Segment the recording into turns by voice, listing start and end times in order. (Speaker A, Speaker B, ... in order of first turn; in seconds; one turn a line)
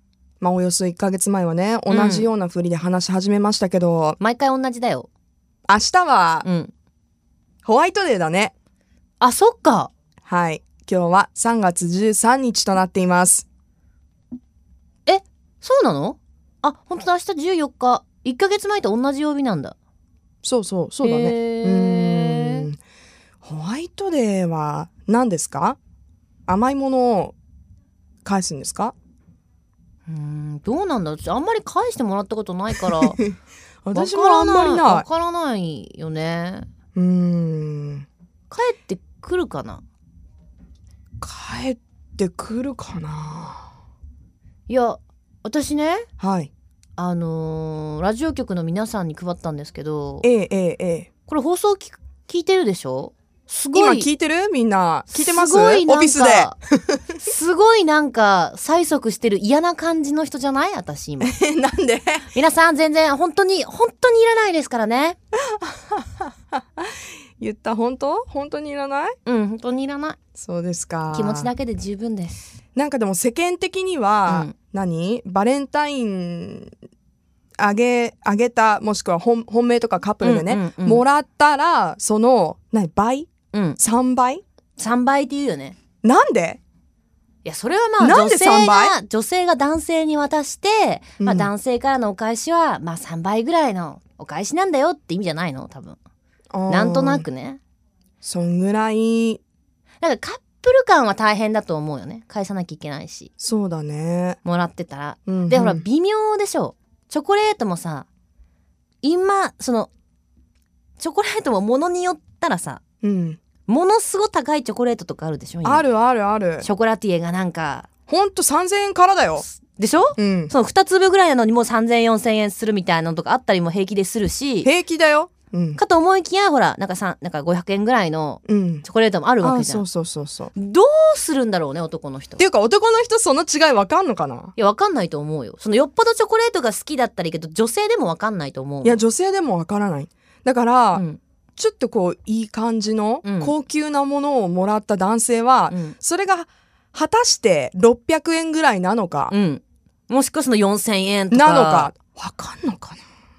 Speaker A: 0.4-4.2
Speaker B: 1.9-2.3
Speaker B: 4.2-5.1
Speaker A: 5.7-6.5
Speaker B: 6.4-6.7
Speaker A: 7.6-8.5
Speaker B: 9.2-9.9
Speaker A: 10.2-13.4
Speaker B: 15.1-19.7
Speaker A: 20.4-22.8
Speaker B: 21.0-22.7
Speaker A: 23.4-25.8
Speaker A: 26.5-27.3
Speaker A: 28.2-28.9
Speaker B: 30.1-33.2
Speaker A: 32.9-33.3
Speaker A: 33.8-35.1
Speaker B: 33.9-36.7
Speaker A: 36.9-38.1
Speaker B: 38.5-39.8
Speaker A: 41.2-43.7
Speaker B: 44.7-46.1
Speaker A: 46.2-46.5
Speaker B: 47.0-50.3
Speaker A: 50.2-51.1
Speaker B: 51.3-54.1
Speaker A: 53.7-57.0
Speaker B: 55.1-56.5
Speaker B: 57.2-61.3
Speaker A: 61.2-62.3
Speaker B: 62.3-65.2
Speaker A: 65.5-69.2
Speaker B: 69.2-70.2
Speaker A: 70.3-71.5
Speaker B: 71.1-72.5
Speaker A: 72.8-76.7
Speaker B: 74.3-74.5
Speaker A: 77.6-84.4
Speaker B: 80.2-81.0
Speaker B: 83.5-83.8
Speaker B: 84.8-85.8
Speaker A: 86.0-86.6
Speaker B: 87.4-96.0
Speaker A: 88.0-88.9
Speaker A: 91.2-91.5
Speaker A: 96.5-97.2
Speaker B: 96.7-97.6
Speaker A: 98.2-99.4
Speaker B: 100.0-103.3
Speaker A: 103.4-104.4
Speaker B: 104.4-108.1
Speaker A: 105.3-105.8
Speaker B: 109.0-109.9
Speaker B: 111.0-112.8
Speaker A: 113.0-113.4
Speaker B: 113.7-115.8
Speaker A: 115.6-116.7
Speaker B: 116.6-117.9
Speaker A: 118.1-119.4
Speaker B: 119.5-124.7
Speaker A: 120.2-120.5
Speaker A: 124.6-125.8
Speaker B: 125.8-129.8
Speaker A: 128.4-128.8
Speaker A: 129.4-130.5
Speaker B: 130.5-132.4
Speaker A: 132.4-134.5
Speaker B: 134.6-139.0
Speaker A: 138.8-141.0
Speaker B: 140.9-141.2
Speaker A: 141.6-149.3
Speaker B: 143.2-143.5
Speaker B: 145.7-145.9
Speaker B: 149.3-151.9
Speaker A: 151.3-153.0